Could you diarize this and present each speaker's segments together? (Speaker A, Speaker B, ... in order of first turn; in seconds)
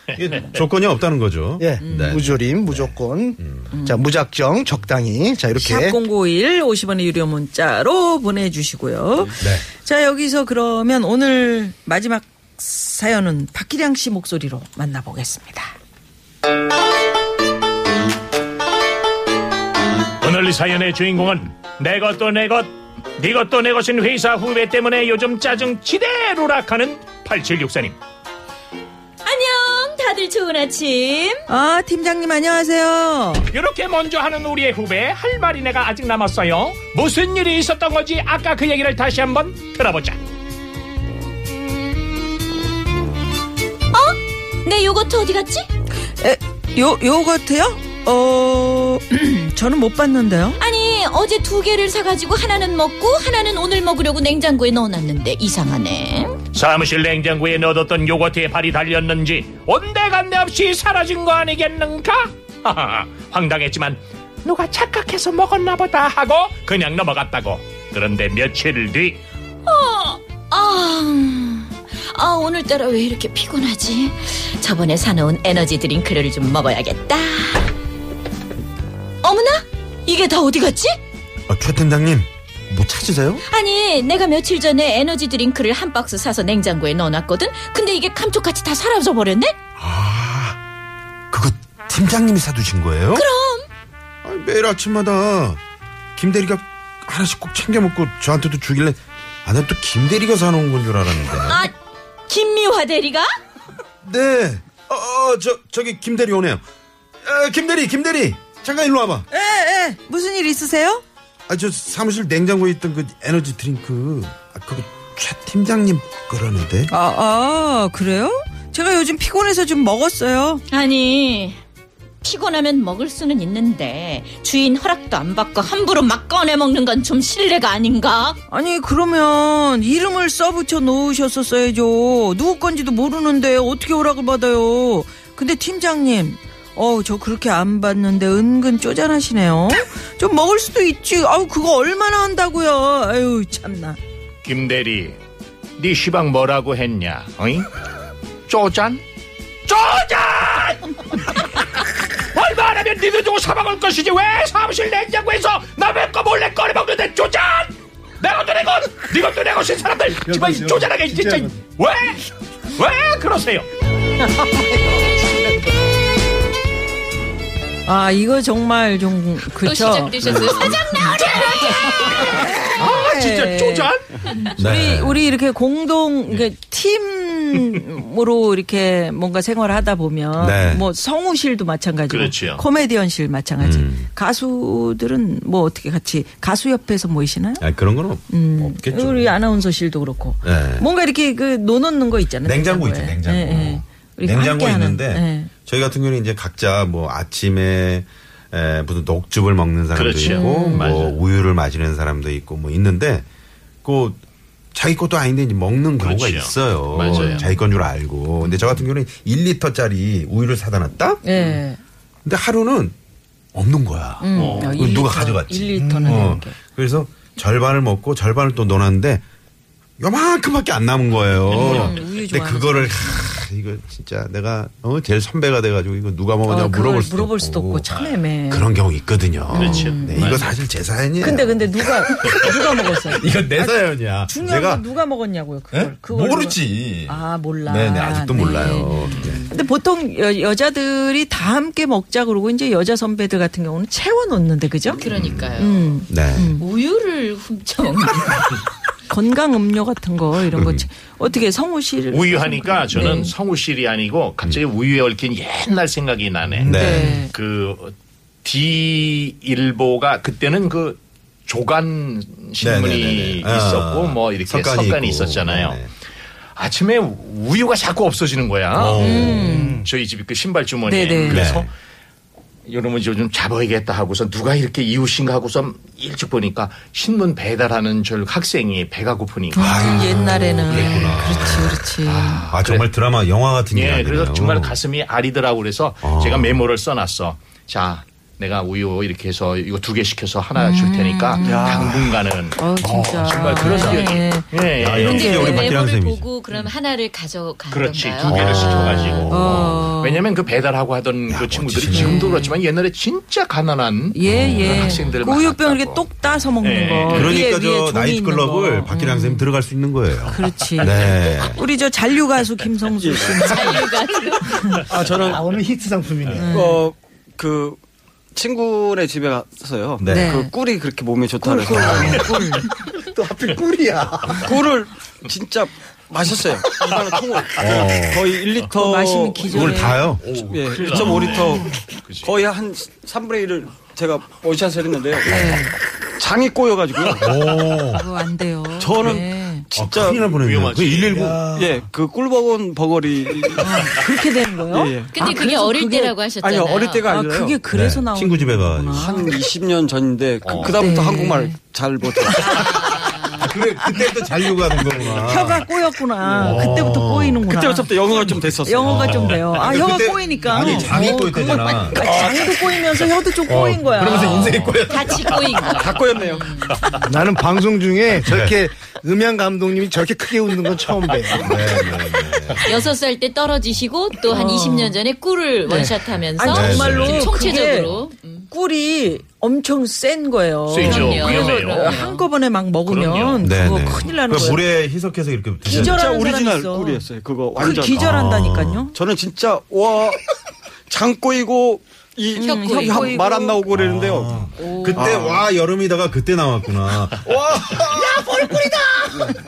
Speaker A: 0.1-3.7, 9.4-9.7, 81.5-83.4, 89.8-90.6, 91.3-93.2, 94.2-95.6, 96.2-101.6, 104.0-106.6, 107.2-109.2, 111.5-116.9, 174.6-175.2, 180.4-180.9, 183.6-184.1, 187.6-189.3, 190.4-190.9, 192.4-203.2, 203.8-204.2, 204.7-211.2, 212.2-212.9, 213.5-219.2, 220.0-227.9, 228.5-234.8, 235.7-239.5, 245.1-245.5, 246.1-246.5, 250.5-250.8, 256.5-257.2, 262.6-265.9, 268.7-269.6, 271.3-271.7, 279.5-284.8, 286.0-286.6, 294.8-296.3, 298.2-299.9, 301.3-302.4, 304.2-305.1, 307.1-311.6, 320.0-320.3, 321.8-322.3, 327.5-328.3, 329.5-331.3, 335.3-335.6, 337.2-338.0, 339.7-341.8, 347.7-349.2, 353.3-355.6, 356.4-357.5, 358.8-362.2, 363.4-365.7, 368.2-368.6, 371.3-372.8, 376.4-377.3, 383.4-386.1, 387.9-388.9, 393.7-398.7
Speaker B: 1.6-6.0, 160.2-161.6, 215.8-216.3, 269.3-269.9, 315.0-316.6, 322.7-324.5, 367.0-371.9
Speaker C: 1.8-2.2, 5.5-15.7, 31.5-33.5, 46.2-50.6, 109.3-111.0, 116.9-120.6, 128.5-144.0, 167.8-171.1, 172.1-187.7, 188.3-195.5, 200.2-200.9, 211.2-211.8, 214.2-216.6, 221.5-223.3, 226.5-228.7, 229.5-230.5, 231.2-245.0, 245.6-246.6, 249.1-253.3, 256.7-257.3, 269.0-269.9, 270.9-271.5, 279.5-282.4, 290.6-291.9, 292.6-294.4, 295.0-295.7, 299.3-300.2, 301.9-302.5, 304.1-309.5, 310.3-314.9, 316.3-316.8, 320.1-320.5, 321.4-322.7, 328.7-330.1, 335.2-335.7, 337.8-339.6, 343.6-346.1, 347.1-349.3, 350.6-351.6, 352.3-352.6, 355.0-364.6, 374.3-374.9, 375.6-377.9, 378.5-384.6, 385.6-387.0, 387.6-388.9, 392.4-393.6, 394.6-395.1
Speaker D: 20.2-28.0, 33.5-40.2, 56.5-69.2, 144.4-145.2, 145.8-147.7, 148.5-149.0, 149.7-163.7, 170.4-174.1, 182.1-182.6, 199.9-201.2, 206.0-207.4, 208.4-208.8, 214.3-214.7, 221.5-221.9, 229.5-230.5, 252.1-265.8, 266.6-269.2, 269.8-271.7, 272.7-280.0, 280.7-281.3, 282.0-282.9, 283.7-295.5, 297.7-307.4, 330.3-332.3, 340.1-341.4, 350.4-350.8, 364.4-364.7, 366.7-367.0, 376.8-377.8, 380.7-382.0, 382.9-383.4
Speaker E: 29.2-31.4, 43.9-45.7, 50.6-56.4, 69.7-77.7, 79.2-81.0, 83.5-89.5, 93.1-93.7, 101.3-101.7, 102.3-103.3, 120.7-121.6, 122.2-128.4, 169.6-172.5, 244.9-246.0, 246.6-248.6, 294.9-299.2, 313.5-314.9, 345.1-347.1, 352.4-353.5, 364.9-367.1, 372.6-378.4, 380.8-382.3, 392.4-393.2
Speaker F: 291.4-292.0, 313.0-313.8, 314.9-315.5, 316.5-317.8, 318.3-322.3, 324.3-335.7, 336.2-337.5, 338.8-340.3, 341.4-344.0, 344.7-345.2, 346.4-347.6, 348.9-353.1, 356.2-356.8, 357.5-361.3, 362.1-362.5, 365.6-366.6, 385.6-388.3, 388.9-390.2, 390.9-395.5